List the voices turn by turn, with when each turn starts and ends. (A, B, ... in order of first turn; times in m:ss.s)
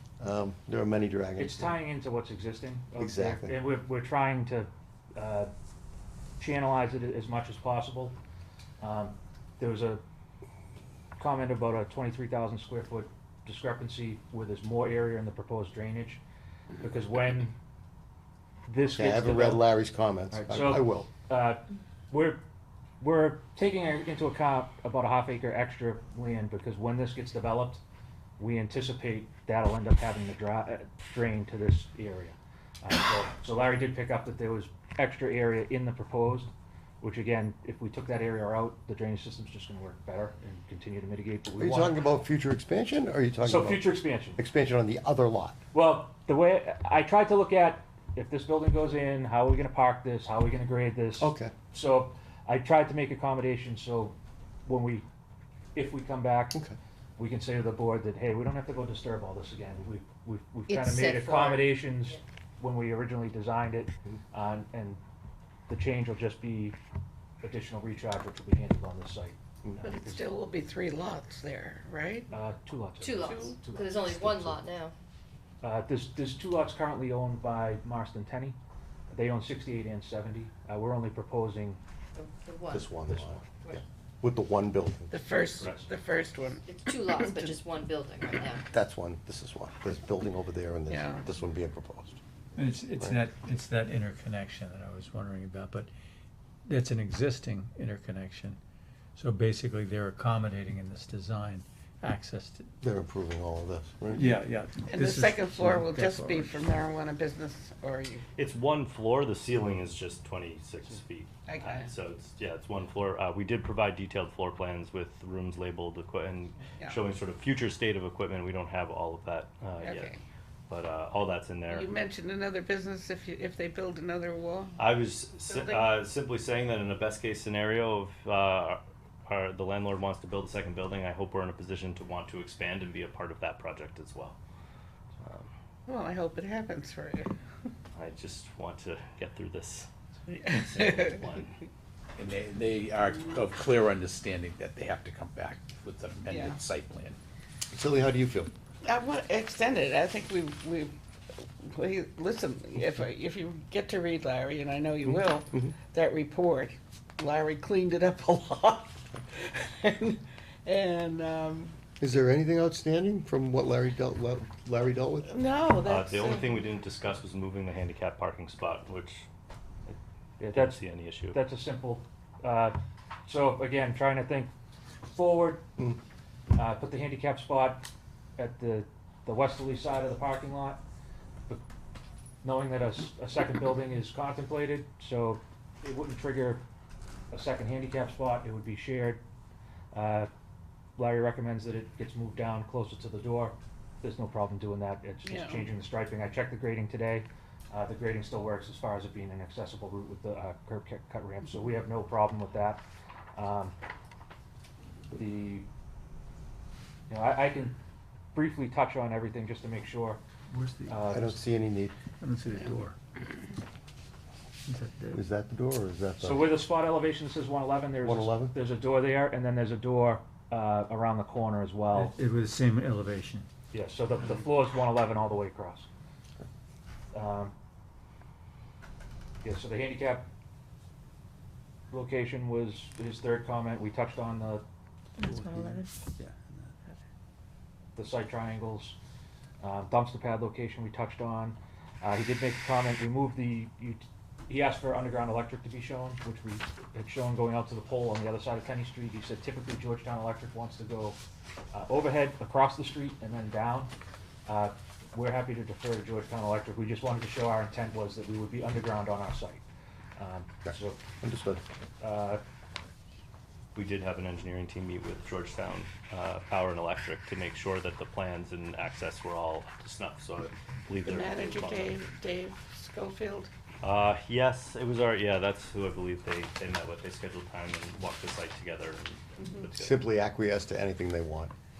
0:00.2-0:01.8 A
0:01.4-0:05.5 B
0:03.0-0:03.6 A
0:06.4-0:08.2 B
0:08.8-0:10.0 B
0:11.2-0:16.2 B
0:16.8-0:17.5 B
0:18.7-0:19.7 B
0:19.0-0:21.1 A
0:20.3-0:22.4 B
0:23.0-0:27.8 B
0:28.4-0:42.0 B
0:41.6-0:45.6 A
0:43.4-0:44.4 B
0:45.7-0:55.0 B
0:51.2-0:51.5 A
0:55.7-0:56.6 B
0:57.2-1:05.0 B
1:00.7-1:01.7 C
1:05.7-1:06.8 B
1:07.4-1:10.3 B
1:09.8-1:12.3 D
1:12.3-1:14.6 B
1:13.0-1:14.9 C
1:13.2-1:13.6 D
1:15.6-1:18.6 B
1:19.1-1:21.8 B
1:22.1-1:23.8 C
1:22.7-1:25.1 A
1:25.1-1:27.6 D
1:25.4-1:25.8 B
1:26.6-1:28.6 C
1:28.7-1:32.2 A
1:30.9-1:31.2 D
1:32.6-1:35.9 E
1:36.6-1:38.6 E
1:39.2-1:42.7 E
1:42.8-1:44.3 A
1:44.1-1:46.6 E
1:44.9-1:48.2 D
1:48.4-2:00.1 F
1:51.5-1:51.9 D
1:59.8-2:00.2 D
2:00.7-2:01.9 F
2:01.7-2:04.8 D
2:04.8-2:14.4 F
2:05.5-2:05.9 D
2:15.2-2:15.5 F
2:15.9-2:17.3 D
2:17.9-2:21.6 F
2:20.3-2:21.2 D
2:22.2-2:27.2 G
2:26.3-2:26.6 D
2:27.7-2:28.5 A
2:28.8-2:30.9 D
2:31.6-2:41.7 D
2:42.0-2:45.3 A
2:45.2-2:46.6 D
2:45.8-2:49.3 F
2:49.9-2:54.5 B
2:50.5-2:51.4 F
2:55.1-2:55.7 B
2:56.5-3:00.8 B
3:02.4-3:06.6 B
3:07.3-3:09.2 B
3:09.9-3:10.3 B
3:11.0-3:22.8 B
3:15.2-3:15.7 D
3:23.4-3:23.7 B
3:25.1-3:25.7 B
3:27.1-3:27.8 B
3:28.3-3:30.2 B
3:30.5-3:31.0 E
3:30.9-3:31.4 B
3:31.1-3:31.9 A
3:32.2-3:33.0 E
3:34.7-3:35.2 E
3:35.1-3:36.5 A
3:36.2-3:42.2 B
3:38.0-3:38.6 A
3:41.9-3:43.5 E
3:43.7-3:45.9 B
3:47.1-3:47.5 B
3:49.4-3:50.3 B
3:51.9-3:54.6 B
3:55.2-3:55.8 C
3:55.3-3:55.8 B
3:57.9-3:59.0 B
3:59.6-4:11.2 B
4:11.7-4:13.9 B
4:14.4-4:19.6 B
4:20.2-4:21.0 B
4:20.6-4:21.6 A
4:22.0-4:22.4 B
4:23.7-4:32.0 F
4:31.0-4:33.5 D
4:33.8-4:40.1 F
4:39.8-4:41.5 A